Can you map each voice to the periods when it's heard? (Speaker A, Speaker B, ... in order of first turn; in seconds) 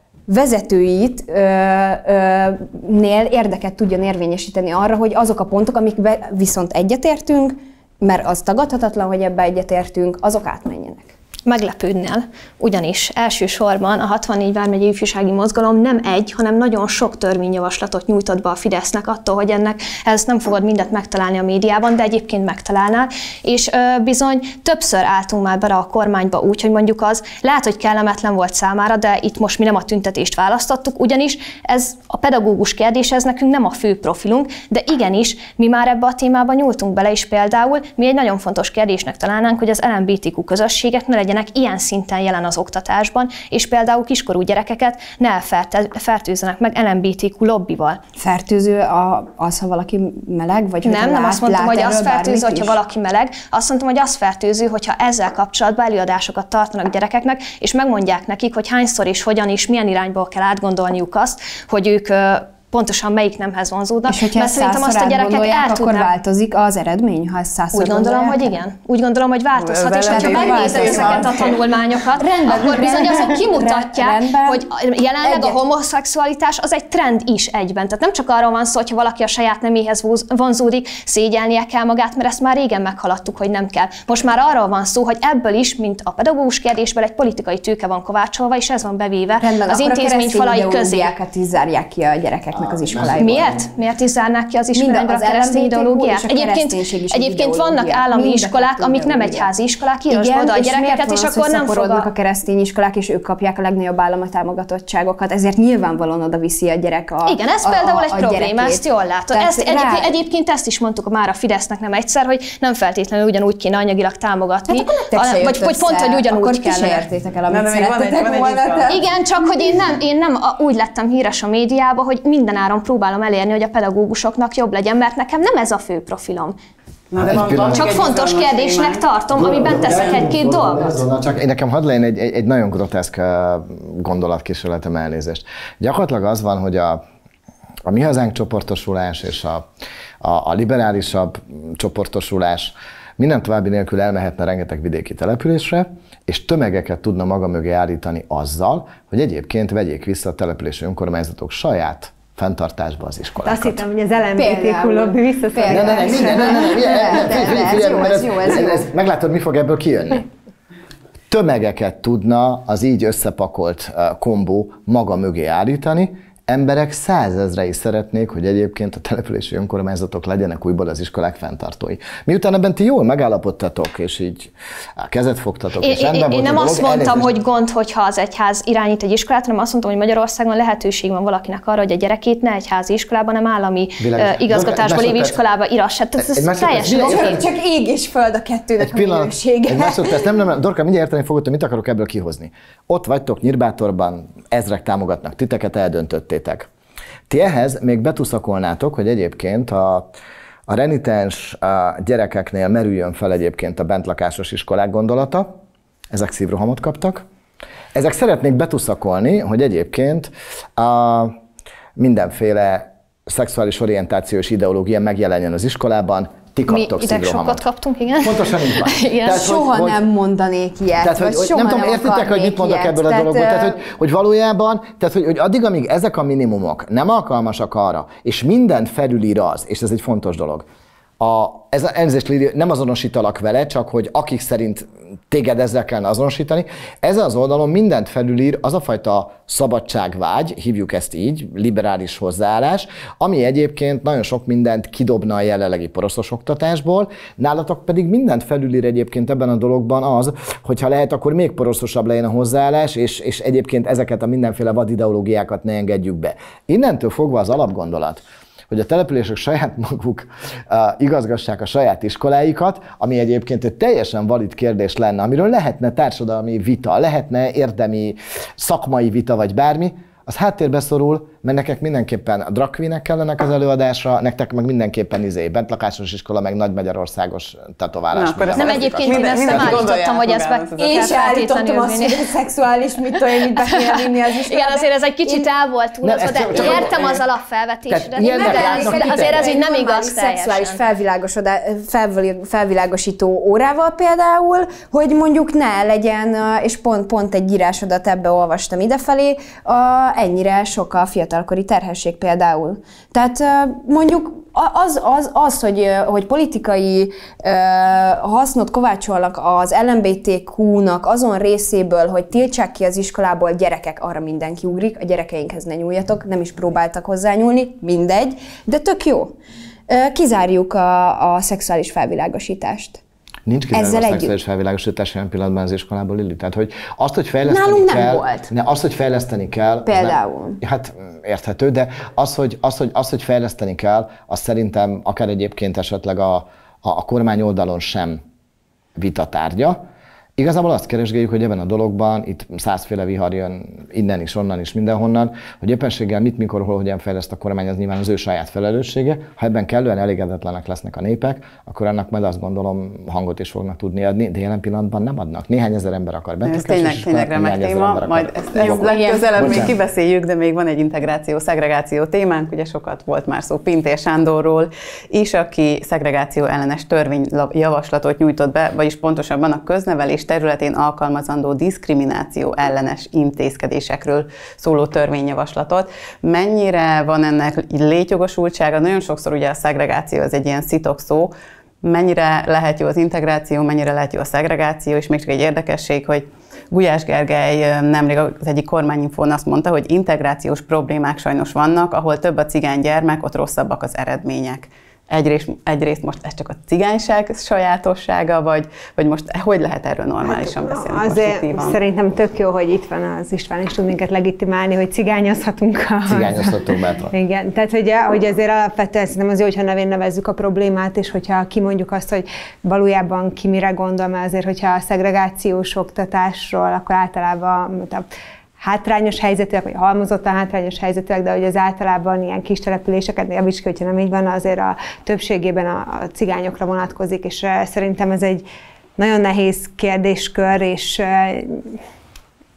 Speaker A: 0.3-11.1, 48.2-52.8, 64.1-68.5, 70.1-71.5, 72.2-74.6, 75.2-75.6, 89.4-93.6, 94.7-99.5, 100.1-110.1, 114.7-119.0, 154.3-158.9, 186.9-190.4, 219.3-223.8, 280.8-285.5, 288.3-319.4, 319.9-323.0, 323.7-324.3, 327.4-328.5, 329.9-330.6, 358.6-359.3
Speaker B: 11.4-48.0, 50.8-66.1, 67.7-91.1, 93.1-102.1, 107.2-117.1, 118.9-126.6, 127.6-130.9, 175.8-187.4, 216.7-219.4, 278.5-282.3, 283.4-290.8
Speaker C: 69.6-71.6, 117.5-119.0, 127.1-129.0, 278.1-281.2, 356.4-381.3, 381.8-401.8
Speaker D: 92.8-93.5, 127.2-127.9, 129.3-137.0, 137.8-139.6, 140.2-153.8, 155.7-160.3, 161.3-177.3, 184.0-185.4, 186.2-187.4, 188.8-196.7, 197.3-200.1, 200.7-205.6, 206.1-207.2, 207.9-211.3, 212.0-217.6, 218.2-220.0, 221.0-230.7, 231.2-279.9, 286.0-287.2, 287.9-289.5, 323.4-338.2, 338.9-339.8, 340.4-359.8, 406.1-407.1
Speaker E: 153.4-156.8, 400.2-418.0, 418.6-428.4, 429.0-431.7